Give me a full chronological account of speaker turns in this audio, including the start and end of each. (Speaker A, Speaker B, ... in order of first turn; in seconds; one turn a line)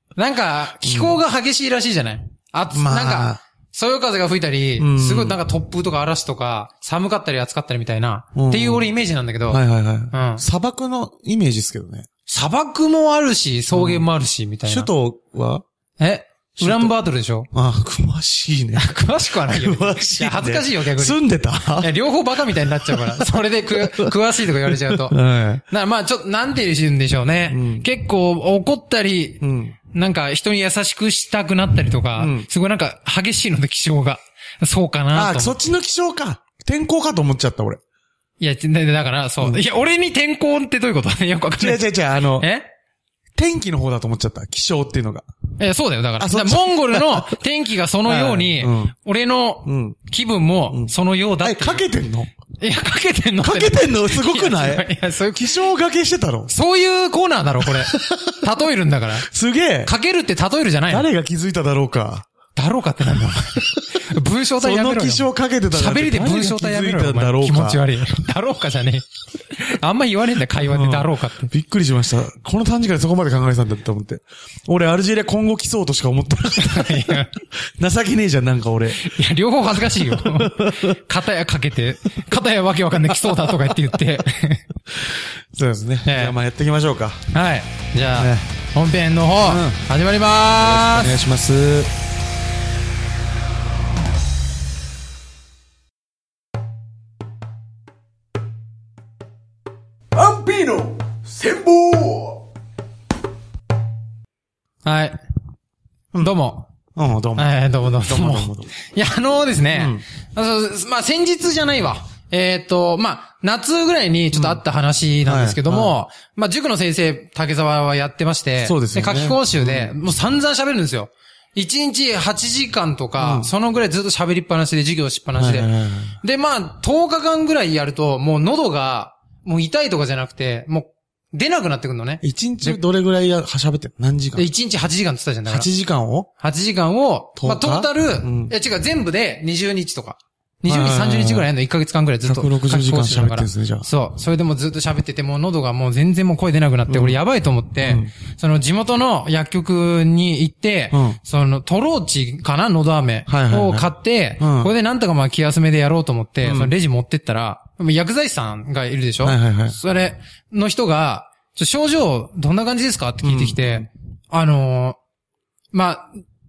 Speaker A: 0.1-10.4
Speaker B: 0.8-1.2
Speaker B: 2.7-3.4
Speaker B: 4.8-5.4
Speaker B: 8.3-8.9
Speaker B: 9.5-12.1
Speaker A: 12.3-14.9
Speaker B: 13.7-14.1
Speaker B: 14.7-15.6
Speaker A: 16.0-17.5
Speaker B: 16.6-16.9
Speaker B: 17.5-21.9
Speaker A: 18.8-21.2
Speaker A: 21.8-25.1
Speaker B: 22.8-24.1
Speaker B: 24.6-25.6
Speaker A: 25.7-35.6
Speaker B: 27.5-27.9
Speaker B: 29.4-29.8
Speaker B: 32.1-32.5
Speaker B: 35.1-37.8
Speaker A: 38.4-42.7
Speaker B: 41.6-42.5
Speaker B: 43.4-45.3
Speaker A: 45.6-51.8
Speaker B: 46.2-47.4
Speaker B: 48.0-48.9
Speaker B: 49.6-50.0
Speaker B: 51.4-52.3
Speaker A: 52.6-55.6
Speaker B: 53.4-56.5
Speaker A: 56.5-59.3
Speaker B: 57.6-58.4
Speaker B: 59.2-59.9
Speaker A: 59.8-61.1
Speaker B: 60.9-62.3
Speaker A: 62.5-71.5
Speaker B: 64.6-68.0
Speaker B: 70.7-77.2
Speaker A: 76.6-77.4
Speaker B: 77.7-79.2
Speaker A: 79.0-84.7
Speaker B: 79.9-81.0
Speaker B: 83.1-83.6
Speaker B: 85.5-87.2
Speaker A: 86.0-86.3
Speaker A: 87.3-91.1
Speaker B: 88.2-88.5
Speaker B: 89.4-89.8
Speaker B: 90.6-91.9
Speaker C: 100.1-102.4
Speaker A: 104.8-105.2
Speaker A: 106.2-106.7
Speaker B: 106.9-107.5
Speaker A: 107.3-132.8
Speaker B: 108.0-108.7
Speaker B: 109.7-110.0
Speaker B: 114.3-114.6
Speaker B: 115.2-116.0
Speaker B: 118.6-119.9
Speaker B: 123.2-123.5
Speaker B: 125.4-126.2
Speaker B: 132.2-134.5
Speaker A: 134.3-135.7
Speaker B: 135.5-136.3
Speaker A: 136.4-165.0
Speaker B: 137.4-138.5
Speaker B: 140.7-141.5
Speaker B: 142.2-143.9
Speaker B: 146.9-147.2
Speaker B: 147.8-148.1
Speaker B: 150.9-151.2
Speaker B: 153.3-154.7
Speaker B: 156.4-156.7
Speaker B: 159.2-159.8
Speaker B: 163.2-163.9
Speaker A: 165.7-166.2